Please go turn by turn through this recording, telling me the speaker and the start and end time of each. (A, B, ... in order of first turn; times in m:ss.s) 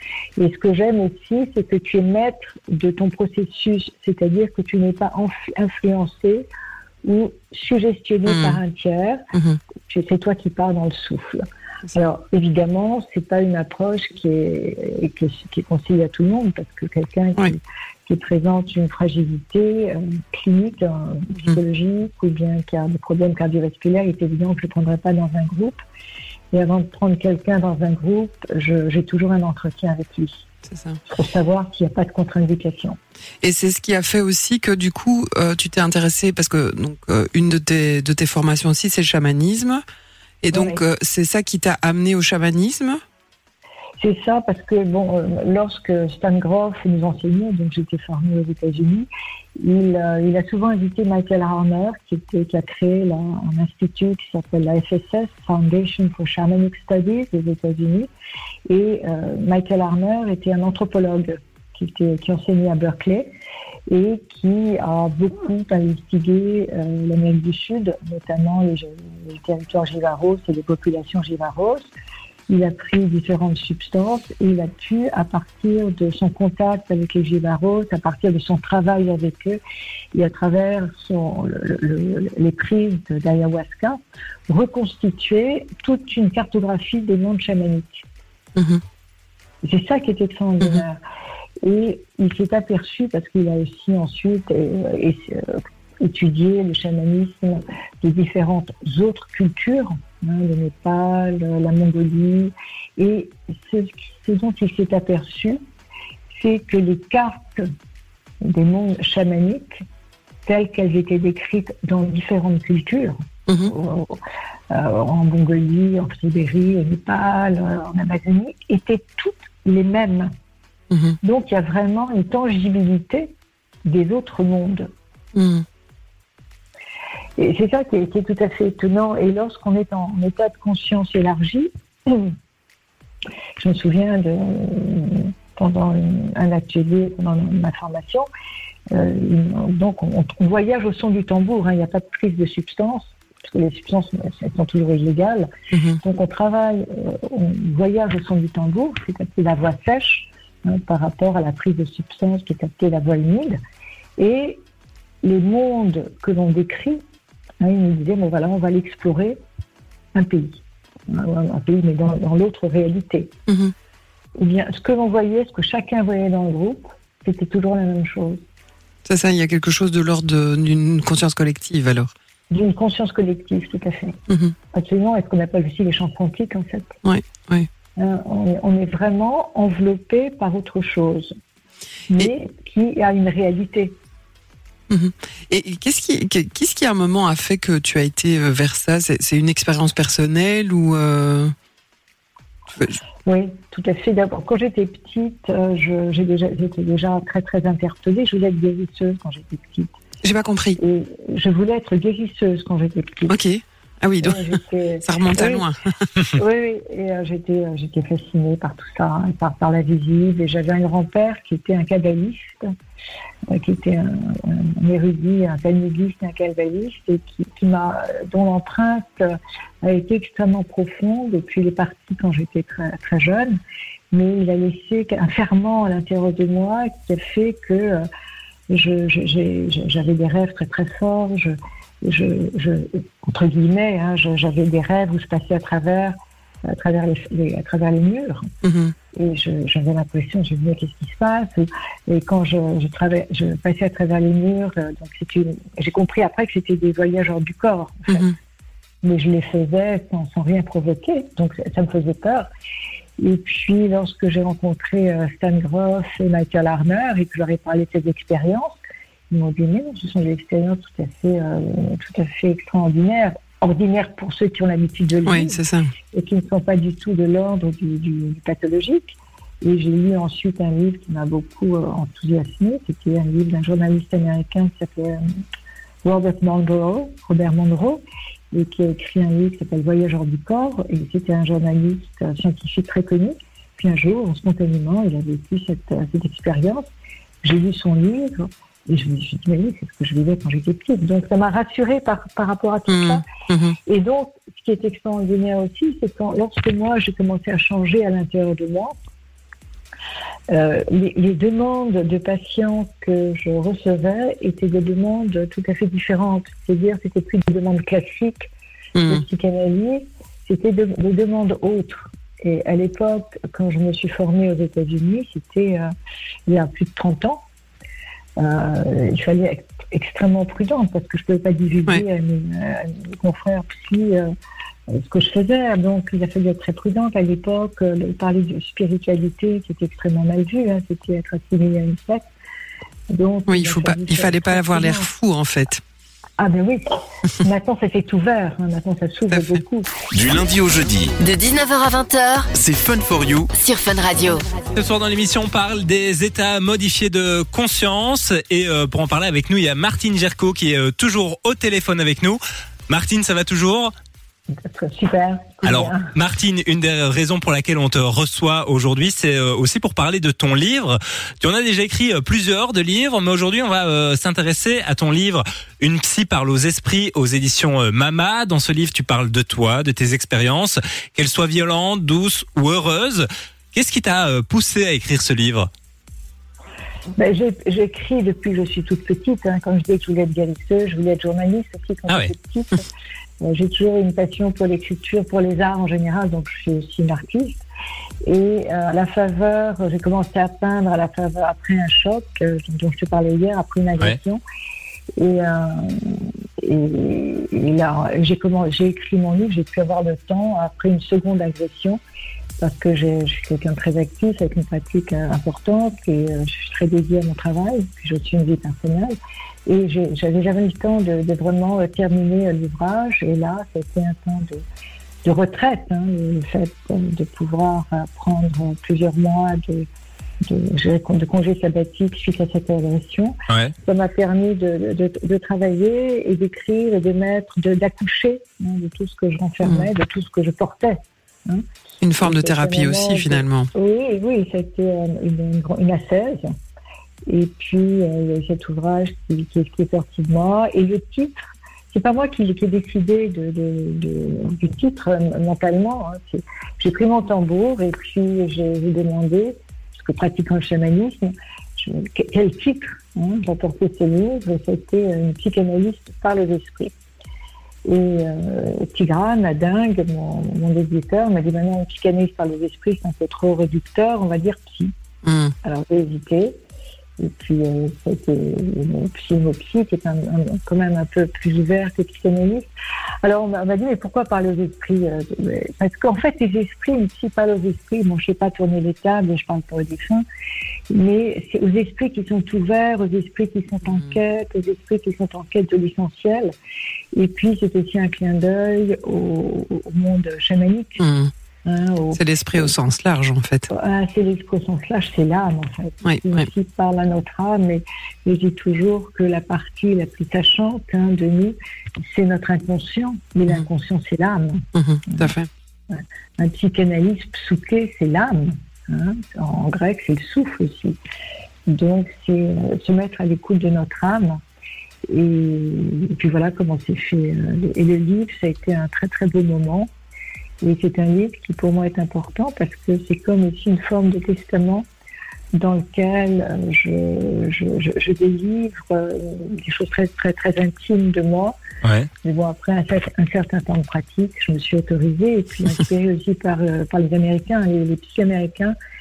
0:00.4-0:06.5 A
0:07.0-0:09.2 A
0:08.3-0:08.6 B
0:09.9-0:25.8 A
0:26.5-0:30.5 A
0:30.7-0:31.0 B
0:31.1-0:33.0 A
0:33.4-0:39.8 B
0:40.4-0:43.0 B
0:40.5-0:40.8 A
0:44.0-0:49.1 A
0:49.6-0:58.1 A
0:58.7-1:03.3 A
1:03.9-1:11.9 A
1:12.5-1:19.6 A
1:20.1-1:28.1 A
1:28.6-1:28.8 B
1:29.6-1:31.0 A
1:31.6-1:45.6 A
1:46.3-1:47.7 A
1:48.4-1:49.8 A
1:50.5-1:54.2 A
1:53.5-1:53.7 B
1:54.7-2:00.3 A
2:00.9-2:01.2 B
2:01.2-2:03.3 A
2:03.8-2:04.9 A
2:05.4-2:05.6 B
2:07.4-2:12.3 A
2:13.6-2:18.3 A
2:18.9-2:25.5 A
2:25.7-2:26.0 B
2:26.0-2:33.6 A
2:34.2-2:34.6 A
2:35.2-2:37.0 A
2:37.6-2:39.4 A
2:40.2-2:43.3 A
2:43.5-2:43.7 B
2:44.4-2:48.4 A
2:49.1-2:52.1 B
2:52.5-2:54.2 A
2:54.3-2:54.6 B
2:54.7-2:56.9 A
2:57.0-2:57.7 B
2:58.0-3:01.3 A
3:02.1-3:04.0 A
3:04.9-3:11.5 B
3:13.3-3:19.9 A
3:20.2-3:20.8 B
3:20.8-3:23.4 A
3:23.3-3:25.8 B
3:24.2-3:25.7 A
3:26.3-3:32.6 A
3:33.5-3:43.6 A
3:44.1-3:48.1 A
3:48.7-3:56.2 A
3:56.7-3:58.5 A
3:58.6-3:58.9 B
3:59.1-4:08.3 A
4:08.1-4:08.4 B
4:09.0-4:12.5 A
4:13.2-4:18.8 A
4:19.3-4:25.6 A
4:25.3-4:25.9 B
4:26.1-4:35.2 A
4:36.0-4:46.9 A
4:47.4-4:53.3 A
4:52.9-4:53.8 B
4:53.9-4:59.0 A
5:00.5-5:08.5 A
5:09.0-5:09.2 B
5:09.1-5:15.9 A
5:16.5-5:17.4 A
5:18.4-5:24.3 A
5:24.9-5:32.3 A
5:33.1-5:35.1 A
5:33.5-5:35.8 B
5:36.4-5:39.9 A
5:39.3-5:39.6 B
5:40.1-5:41.2 C
5:41.2-5:42.5 D
5:42.5-5:43.5 C
5:43.5-5:44.5 D
5:44.8-5:53.9 E
5:54.7-5:56.1 A
5:55.6-6:15.7 E
6:17.2-6:22.8 A
6:22.1-6:22.3 E
6:23.4-6:27.6 A
6:28.2-6:34.4 A
6:35.2-6:42.0 A
6:42.6-6:49.2 A
6:49.7-6:54.6 A
6:55.2-6:59.9 A
7:00.4-7:11.6 A
7:12.0-7:13.7 B
7:12.2-7:16.4 A
7:17.3-7:21.4 A
7:21.9-7:36.9 A
7:37.9-7:44.9 A
7:45.2-7:45.5 B
7:45.6-7:46.6 A
7:47.2-7:52.7 A
7:53.2-8:00.2 A
8:00.9-8:06.5 A
8:07.1-8:11.0 A
8:11.0-8:11.3 B
8:11.7-8:12.8 A
8:12.2-8:13.7 B
8:13.7-8:25.3 A
8:16.0-8:16.5 B
8:24.8-8:25.5 B
8:25.9-8:31.0 A
8:31.7-8:34.4 A
8:35.1-8:39.9 A
8:40.6-8:44.9 A
8:45.5-8:51.6 A
8:51.8-8:52.1 E
8:52.2-8:58.8 A